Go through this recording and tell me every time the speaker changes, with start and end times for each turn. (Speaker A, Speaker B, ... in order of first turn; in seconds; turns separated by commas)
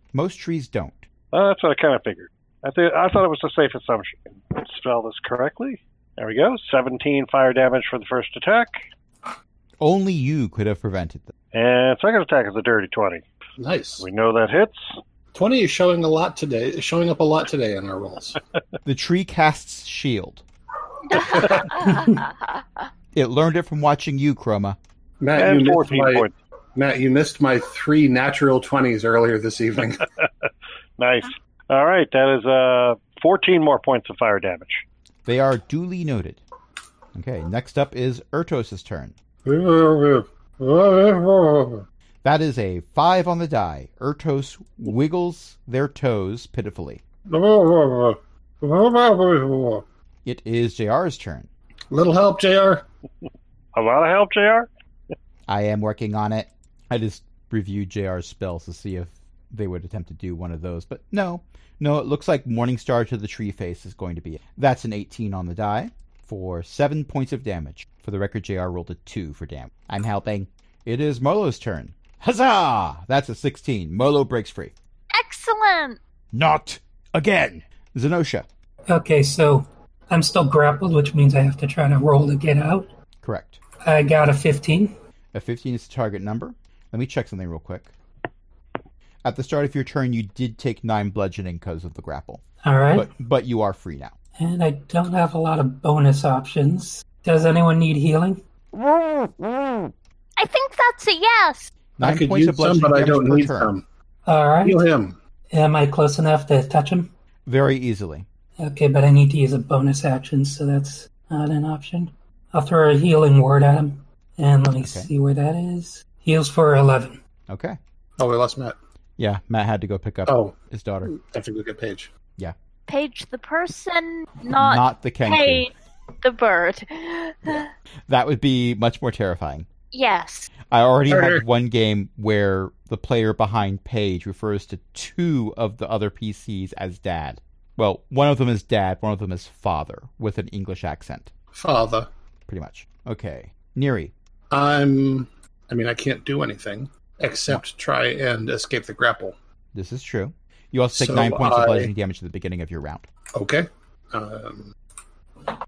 Speaker A: 0.1-1.1, Speaker B: 1.3-8.8, Speaker A: 9.8-11.3, Speaker B: 11.5-13.2, Speaker C: 13.6-14.0, Speaker B: 14.0-15.0, Speaker C: 15.3-18.4, Speaker A: 18.8-20.4, Speaker C: 21.1-22.0, Speaker D: 21.1-22.3, Speaker A: 23.1-24.8, Speaker C: 25.2-30.0, Speaker B: 25.4-26.3, Speaker B: 30.2-34.8, Speaker A: 35.2-36.4, Speaker A: 37.1-39.1, Speaker C: 39.4-41.8, Speaker A: 42.2-47.0, Speaker C: 47.3-49.8, Speaker A: 50.2-51.5, Speaker C: 51.9-52.8, Speaker B: 53.7-54.7, Speaker A: 55.5-74.7, Speaker D: 75.1-76.0, Speaker A: 76.3-78.5, Speaker E: 78.9-82.9, Speaker A: 83.2-83.6, Speaker E: 83.8-84.9, Speaker A: 85.3-87.9, Speaker A: 89.2-92.4, Speaker E: 92.6-93.1, Speaker A: 92.9-94.1, Speaker E: 94.4-98.4, Speaker D: 100.4-101.7, Speaker A: 102.0-103.7, Speaker C: 102.0-103.8, Speaker E: 104.2-104.8, Speaker C: 104.6-105.2, Speaker E: 105.5-107.1, Speaker A: 107.5-108.2, Speaker E: 108.6-117.2, Speaker A: 114.8-115.1, Speaker A: 117.5-117.8, Speaker C: 118.2-118.8, Speaker A: 119.2-121.1, Speaker C: 120.3-120.5, Speaker C: 121.0-122.1, Speaker D: 122.9-127.7, Speaker A: 124.5-125.7, Speaker A: 128.1-129.7, Speaker D: 129.9-130.5, Speaker A: 130.7-141.3, Speaker C: 131.1-131.4, Speaker C: 141.5-142.1, Speaker A: 142.5-144.1, Speaker C: 144.5-149.3, Speaker A: 149.7-153.1, Speaker C: 150.9-151.9, Speaker C: 153.3-154.7